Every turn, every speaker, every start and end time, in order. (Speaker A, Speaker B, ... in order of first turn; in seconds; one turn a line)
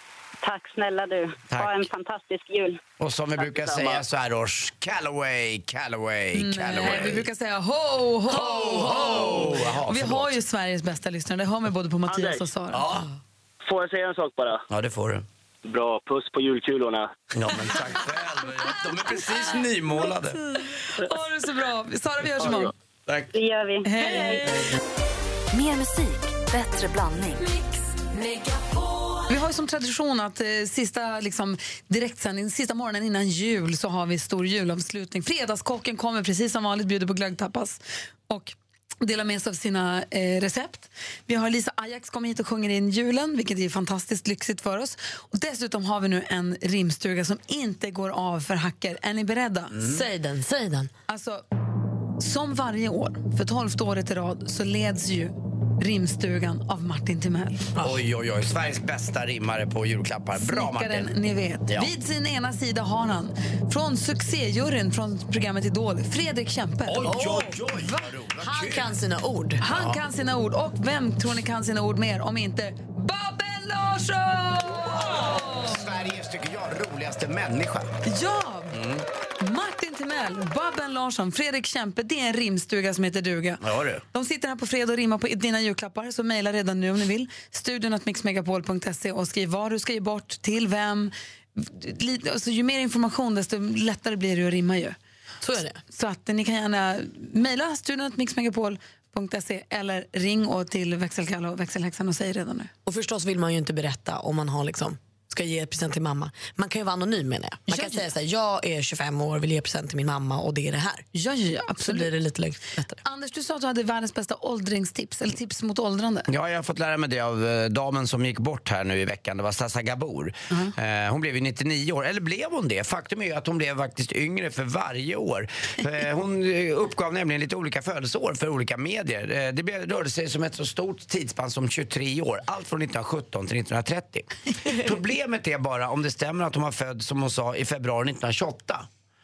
Speaker A: 0.4-2.8
Speaker B: 1.5-1.9
Speaker B: 3.0-7.3
Speaker C: 3.4-4.0
Speaker D: 6.3-12.8
Speaker B: 8.3-10.4
Speaker C: 12.1-12.5
Speaker B: 12.7-13.1
Speaker C: 13.7-14.6
Speaker B: 14.7-15.2
Speaker C: 15.7-17.1
Speaker B: 17.3-20.4
Speaker D: 20.8-22.7
Speaker A: 23.3-24.4
Speaker D: 23.9-24.7
Speaker E: 25.5-27.7
Speaker D: 29.3-49.7
Speaker B: 49.7-50.1
Speaker F: 49.8-50.9
Speaker D: 51.1-51.4
Speaker D: 52.2-57.7
Speaker F: 57.8-58.0
Speaker B: 57.8-61.1
Speaker D: 60.4-67.1
Speaker B: 66.9-69.0
Speaker F: 67.0-67.6
Speaker D: 67.7-68.1
Speaker F: 68.4-69.6
Speaker D: 69.6-75.9
Speaker B: 69.7-70.0
Speaker B: 75.0-77.9
Speaker D: 78.0-78.8
Speaker B: 78.7-79.0
Speaker D: 79.4-83.6
Speaker B: 83.6-84.0
Speaker D: 84.1-95.0
Speaker F: 95.4-95.8
Speaker D: 95.9-102.7
Speaker F: 102.9-111.1
Speaker D: 107.7-108.1
Speaker D: 111.1-112.1
Speaker F: 111.8-113.0
Speaker D: 113.0-116.3
Speaker B: 116.3-138.9